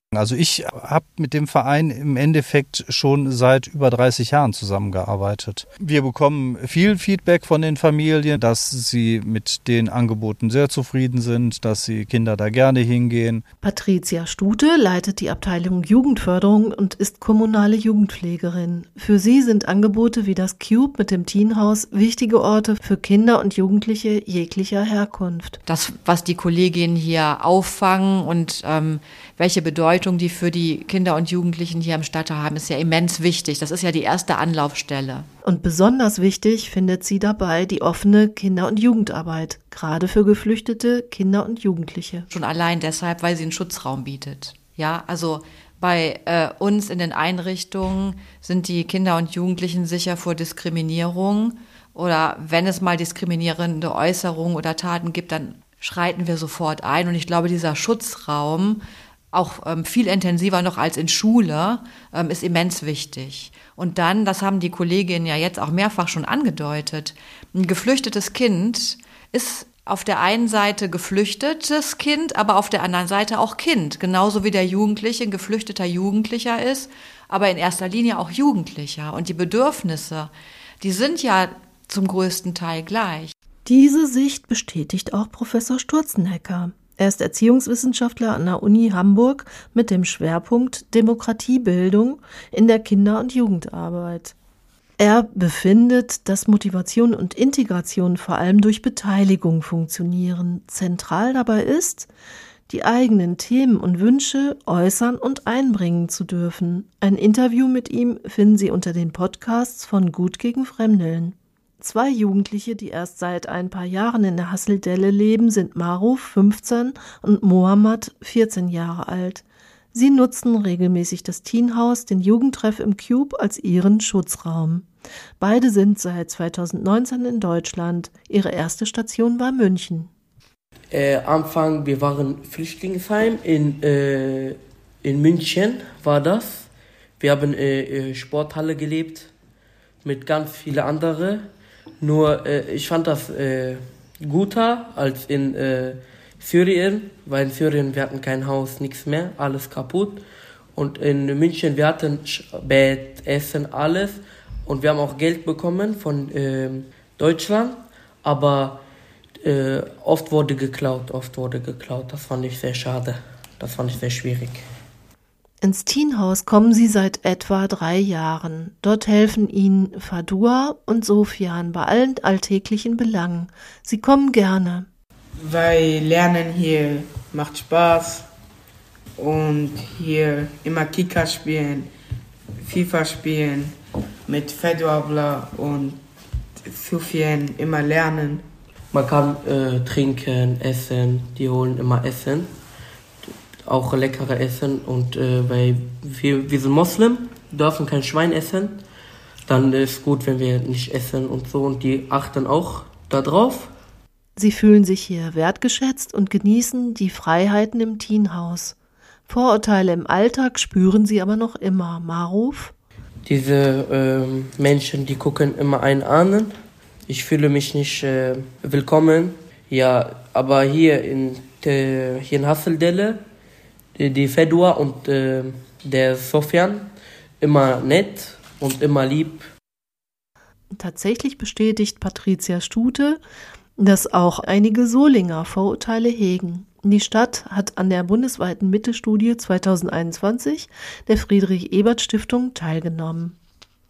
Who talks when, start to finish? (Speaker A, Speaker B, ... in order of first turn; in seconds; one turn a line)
Speaker A: 0.1-13.4
Speaker B: 13.6-25.6
Speaker C: 25.7-35.3
Speaker B: 35.4-42.3
Speaker C: 42.3-83.3
Speaker B: 83.7-94.3
Speaker B: 95.0-102.1
Speaker B: 102.7-130.1
Speaker D: 130.9-139.3
Speaker D: 140.0-141.5
Speaker D: 142.0-150.2
Speaker D: 150.8-158.8
Speaker D: 159.4-164.6
Speaker B: 165.6-174.9
Speaker E: 175.4-178.3
Speaker E: 179.2-181.9
Speaker E: 182.6-183.8
Speaker E: 184.3-186.0
Speaker E: 186.6-188.4
Speaker D: 188.9-192.5
Speaker D: 193.7-198.8
Speaker D: 199.5-203.7
Speaker B: 204.4-208.8
Speaker B: 209.3-212.7
Speaker D: 213.3-216.6
Speaker D: 217.1-223.2
Speaker D: 223.9-229.5
Speaker B: 230.7-233.2
Speaker B: 233.8-243.4